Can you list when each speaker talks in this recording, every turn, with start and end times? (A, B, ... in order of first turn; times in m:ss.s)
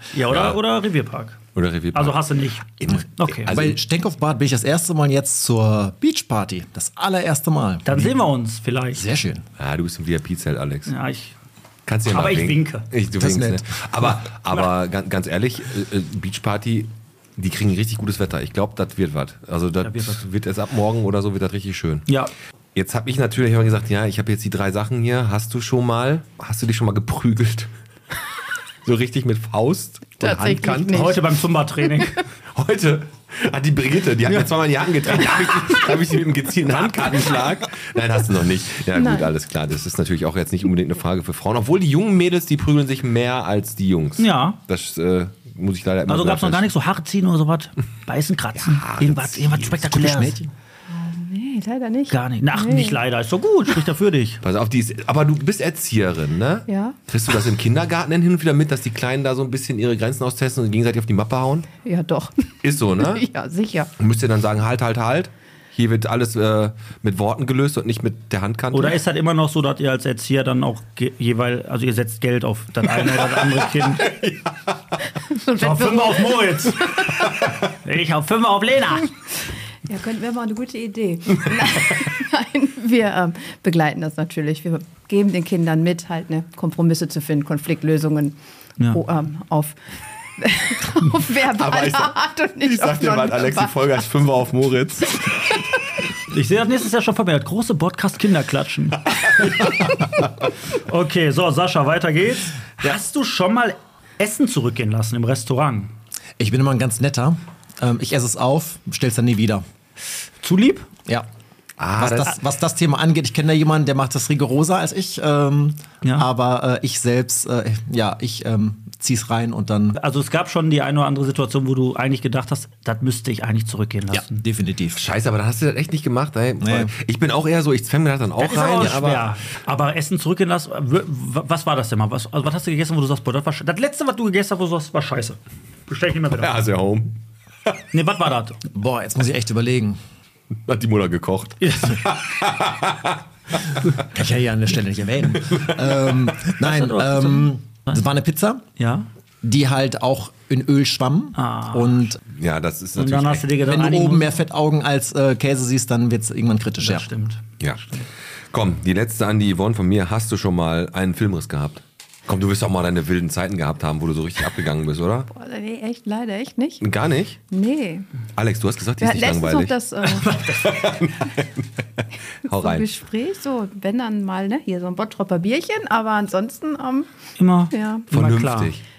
0:00.1-0:01.4 A
0:00.3-0:00.6 B
0:01.6-0:03.8 B
0:01.9-0:03.7 A
0:02.9-0:08.1 C
0:07.8-0:09.0 A
0:08.9-0:09.5 C
0:09.6-0:10.9 B
0:10.9-0:11.4 A
0:11.9-0:22.1 B
0:12.1-0:12.9 A
0:13.2-0:13.9 C
0:19.8-0:20.2 A
0:22.7-0:27.7 B
0:28.8-0:31.0 B
0:30.2-0:32.1 D
0:30.9-0:32.2 A
0:32.5-0:46.7 B
0:38.9-0:39.3 D
0:44.2-0:44.6 A
0:46.1-0:50.4 A
0:48.6-0:50.0 B
0:49.8-0:50.5 C
0:50.9-0:53.0 D
0:52.1-0:54.4 A
0:54.4-1:01.7 B
0:56.7-0:57.0 D
1:01.8-1:03.9 D
1:02.6-1:03.3 B
1:04.0-1:09.0 B
1:08.7-1:14.1 A
1:15.3-1:17.5 D
1:15.6-1:17.0 A
1:17.8-1:19.1 A
1:19.9-1:28.4 D
1:28.9-1:29.8 D
1:30.4-1:33.9 D
1:31.4-1:35.6 B
1:36.3-1:40.0 A
1:39.2-1:39.9 B
1:40.7-1:45.9 A
1:46.4-1:49.6 C
1:50.4-1:50.9 A
1:51.8-1:52.4 B
1:52.0-2:00.0 C
1:59.9-2:04.4 A
2:04.1-2:05.0 C
2:05.0-2:09.3 B
2:06.6-2:06.9 C
2:08.4-2:16.6 A
2:16.3-2:17.2 B
2:17.9-2:18.6 A
2:18.7-2:20.0 C
2:20.6-2:23.6 B
2:21.6-2:22.1 A
2:24.1-2:28.6 C
2:25.5-2:26.5 B
2:26.6-2:28.0 A
2:28.8-2:29.1 A
2:29.4-2:32.2 C
2:31.4-2:32.2 A
2:32.3-2:33.5 B
2:33.0-2:34.4 A
2:33.6-2:37.1 C
2:36.8-2:38.1 A
2:37.6-2:38.0 B
2:38.5-2:45.3 B
2:45.3-2:46.8 D
2:46.8-2:47.4 B
2:47.5-2:48.1 D
2:48.4-2:51.7 B
2:49.0-2:50.5 D
2:52.4-2:57.1 D
2:52.4-2:52.9 B
2:57.4-2:58.8 A
2:57.7-2:58.1 D
2:58.1-2:58.8 B